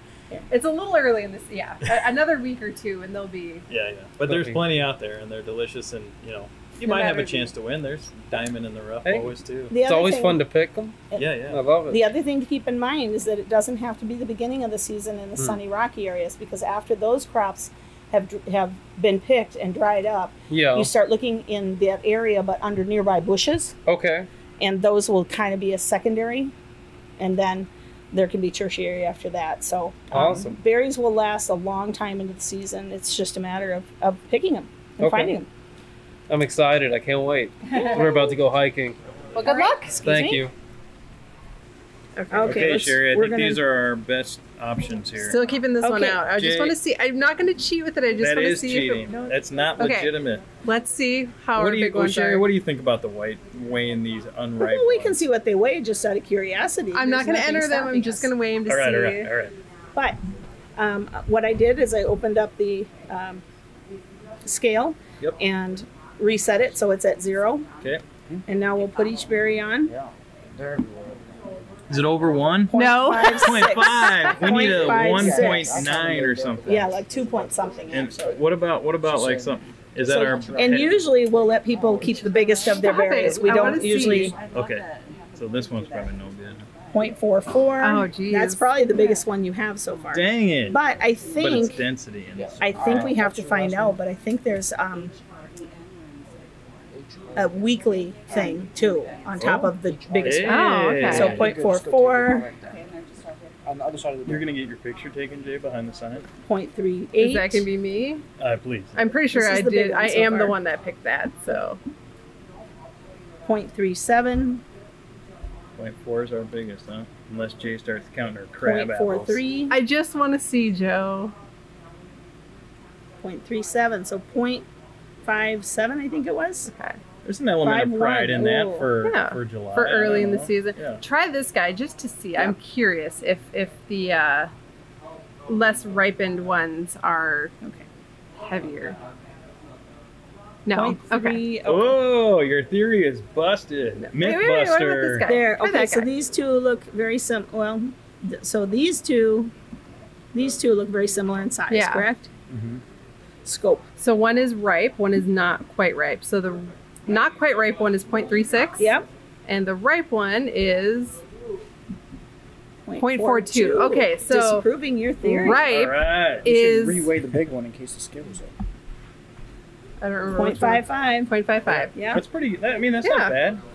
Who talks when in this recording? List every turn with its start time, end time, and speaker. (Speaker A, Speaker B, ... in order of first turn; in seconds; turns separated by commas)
Speaker A: 0.5-3.7, Speaker B: 3.7-9.8, Speaker C: 4.3-4.7, Speaker A: 6.8-7.5, Speaker C: 9.1-11.0, Speaker D: 9.7-10.4, Speaker B: 11.2-11.6, Speaker C: 11.5-12.1, Speaker D: 11.9-23.8, Speaker C: 20.5-20.9, Speaker C: 23.9-24.3, Speaker D: 24.6-26.5, Speaker D: 27.2-35.5, Speaker C: 30.1-30.6, Speaker C: 35.0-35.3, Speaker C: 36.3-39.0, Speaker D: 37.7-38.4, Speaker A: 39.3-40.0, Speaker D: 39.4-40.5, Speaker C: 40.0-40.5, Speaker A: 42.2-42.7, Speaker D: 42.3-43.6, Speaker B: 42.4-45.4, Speaker A: 45.3-52.5, Speaker D: 45.8-46.2, Speaker B: 46.3-46.8, Speaker B: 48.2-50.5, Speaker B: 51.6-55.2, Speaker D: 54.6-58.3, Speaker A: 56.9-59.3, Speaker B: 58.7-59.5, Speaker D: 59.9-60.2, Speaker D: 60.8-63.4, Speaker D: 64.4-67.7, Speaker D: 68.5-69.9, Speaker E: 69.9-71.8, Speaker B: 71.9-72.8, Speaker D: 72.7-75.8, Speaker A: 72.7-74.3, Speaker B: 73.3-77.0, Speaker E: 74.4-78.3, Speaker D: 76.7-78.4, Speaker B: 77.9-81.0, Speaker E: 79.0-82.4, Speaker D: 80.0-84.4, Speaker A: 82.7-84.4, Speaker E: 83.0-86.1, Speaker B: 84.4-86.7, Speaker D: 86.9-91.8, Speaker A: 87.8-88.7, Speaker B: 90.1-90.8, Speaker B: 91.4-93.1, Speaker E: 92.4-94.0, Speaker D: 92.6-95.2, Speaker E: 96.9-97.5, Speaker D: 97.3-102.5, Speaker B: 99.4-101.5, Speaker E: 99.7-104.5, Speaker A: 100.5-101.4, Speaker B: 104.3-106.3, Speaker D: 106.4-107.7, Speaker A: 107.2-108.2, Speaker B: 108.4-109.0, Speaker A: 109.0-111.8, Speaker D: 109.3-110.6, Speaker D: 113.5-114.6, Speaker B: 115.8-119.4, Speaker D: 118.6-119.8, Speaker A: 119.7-121.3, Speaker D: 123.2-124.7, Speaker D: 125.2-126.7, Speaker A: 126.7-127.0, Speaker B: 127.2-131.0, Speaker D: 127.6-128.9, Speaker A: 129.0-134.5, Speaker A: 135.5-137.5, Speaker A: 138.4-139.0, Speaker A: 140.7-141.5, Speaker D: 140.7-142.0, Speaker B: 141.7-145.3, Speaker A: 144.0-146.1, Speaker D: 145.2-149.5, Speaker D: 150.3-152.3, Speaker A: 151.7-152.1, Speaker B: 152.5-152.8, Speaker D: 153.4-153.9, Speaker A: 154.0-158.9, Speaker D: 158.8-159.1, Speaker A: 159.5-161.2, Speaker D: 162.9-165.7, Speaker A: 163.0-164.7, Speaker A: 165.2-167.2, Speaker B: 165.5-166.5, Speaker E: 166.4-168.5, Speaker A: 170.0-172.0, Speaker D: 170.3-171.3, Speaker B: 171.7-173.6, Speaker D: 171.9-172.2, Speaker A: 173.0-173.4